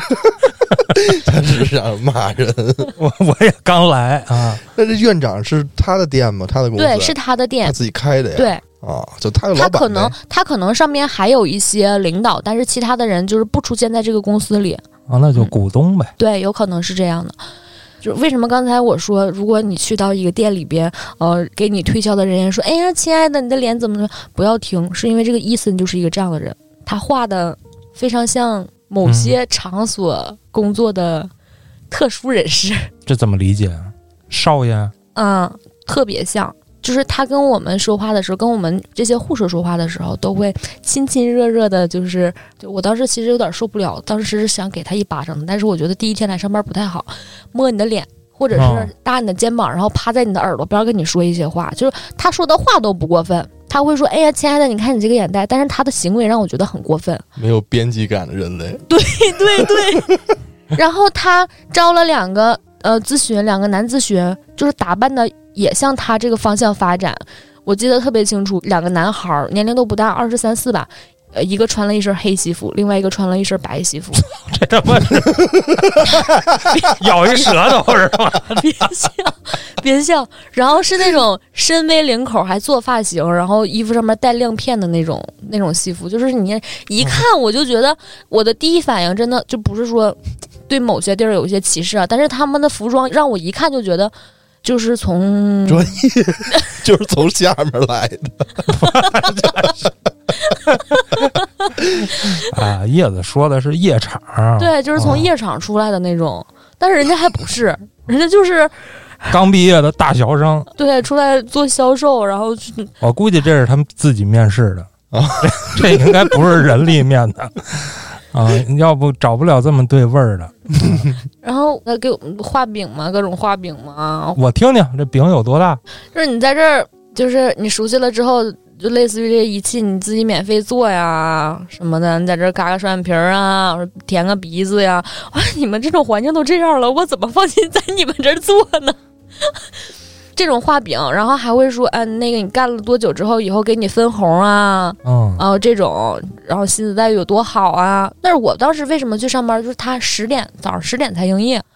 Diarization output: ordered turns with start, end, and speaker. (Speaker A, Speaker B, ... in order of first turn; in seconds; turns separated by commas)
Speaker A: 0.9-2.9, Speaker B: 3.0-4.6, Speaker A: 4.5-10.1, Speaker C: 6.8-7.8, Speaker C: 8.3-8.6, Speaker C: 9.5-14.8, Speaker B: 15.1-16.1, Speaker C: 16.2-17.4, Speaker C: 18.0-31.3, Speaker B: 29.0-29.4, Speaker C: 31.9-32.9, Speaker B: 33.0-34.9, Speaker C: 35.1-57.2, Speaker B: 48.5-48.9, Speaker A: 57.4-60.2, Speaker C: 58.9-60.2, Speaker C: 60.7-74.2, Speaker B: 74.2-78.9, Speaker C: 78.5-90.2, Speaker C: 90.7-95.9, Speaker A: 95.7-98.7, Speaker B: 98.7-99.8, Speaker B: 102.2-105.3, Speaker C: 104.6-109.3, Speaker B: 109.3-110.7, Speaker C: 110.8-112.9, Speaker B: 113.0-114.9, Speaker A: 115.1-116.3, Speaker B: 115.4-121.1, Speaker C: 121.4-124.4, Speaker B: 124.4-125.8, Speaker C: 126.1-139.6, Speaker C: 140.4-151.6, Speaker B: 145.0-145.4